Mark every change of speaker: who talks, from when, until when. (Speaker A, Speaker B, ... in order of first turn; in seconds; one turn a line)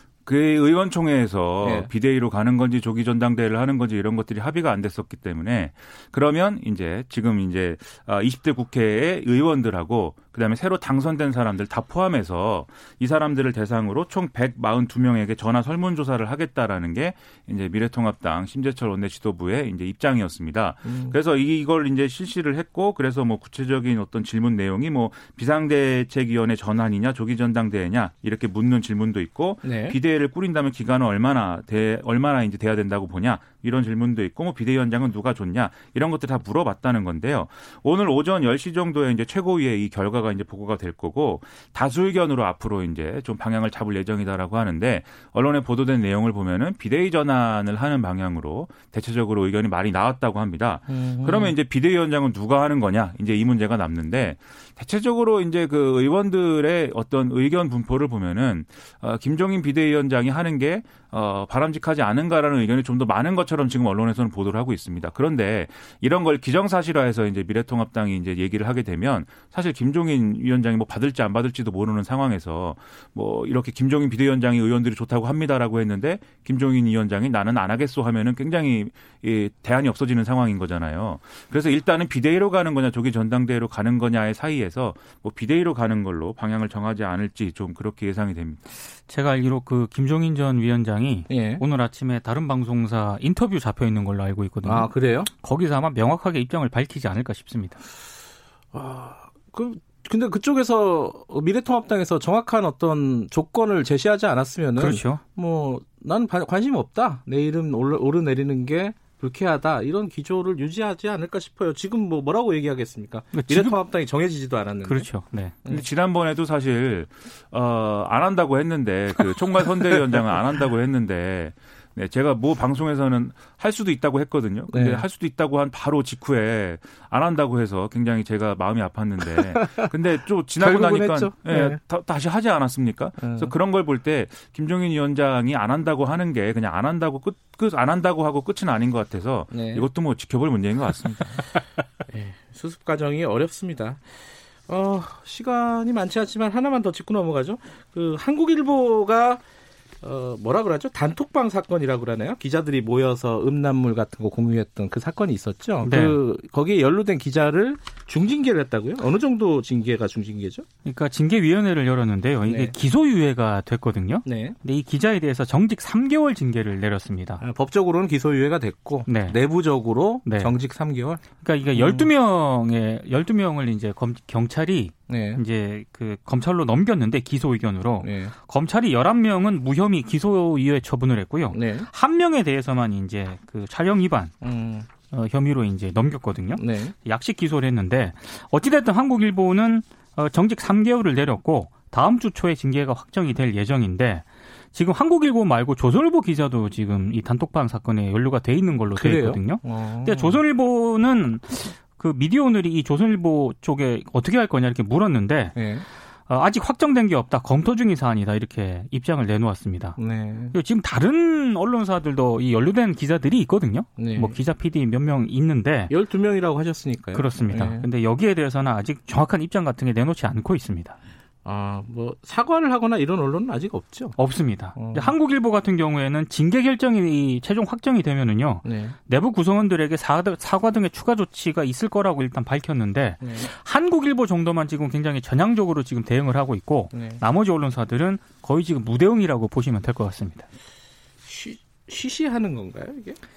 Speaker A: 0.2-88.6
Speaker B: 1.6-1.9
Speaker B: 20.9-21.1
Speaker B: 29.6-30.0
Speaker B: 50.9-51.5
Speaker C: 89.1-97.8
Speaker B: 91.3-91.6
Speaker B: 94.6-95.3
Speaker B: 98.7-115.1
Speaker C: 104.8-105.2
Speaker C: 113.3-113.8
Speaker C: 114.8-115.5
Speaker A: 115.7-141.4
Speaker B: 124.7-125.0
Speaker B: 130.6-131.8
Speaker B: 133.2-133.5
Speaker B: 139.5-139.9
Speaker B: 142.1-149.4
Speaker B: 150.0-160.7
Speaker C: 155.8-156.2
Speaker C: 160.8-167.4
Speaker B: 162.4-162.7
Speaker B: 164.2-164.6
Speaker B: 167.4-172.1
Speaker C: 169.1-169.4
Speaker C: 170.2-170.5
Speaker C: 171.4-184.3
Speaker B: 175.1-175.4
Speaker B: 178.0-178.3
Speaker B: 181.5-181.9
Speaker B: 184.4-184.9
Speaker C: 185.1-205.6
Speaker B: 186.6-186.9
Speaker B: 198.9-200.4
Speaker B: 205.5-205.8
Speaker C: 206.3-210.0
Speaker B: 210.0-210.5
Speaker C: 210.5-215.9
Speaker B: 214.0-214.3
Speaker B: 215.9-217.8
Speaker C: 217.1-221.0
Speaker B: 221.4-224.2
Speaker C: 224.2-240.5
Speaker B: 224.8-225.1
Speaker B: 228.6-228.9
Speaker B: 233.2-233.5
Speaker B: 236.9-237.2
Speaker B: 241.2-243.2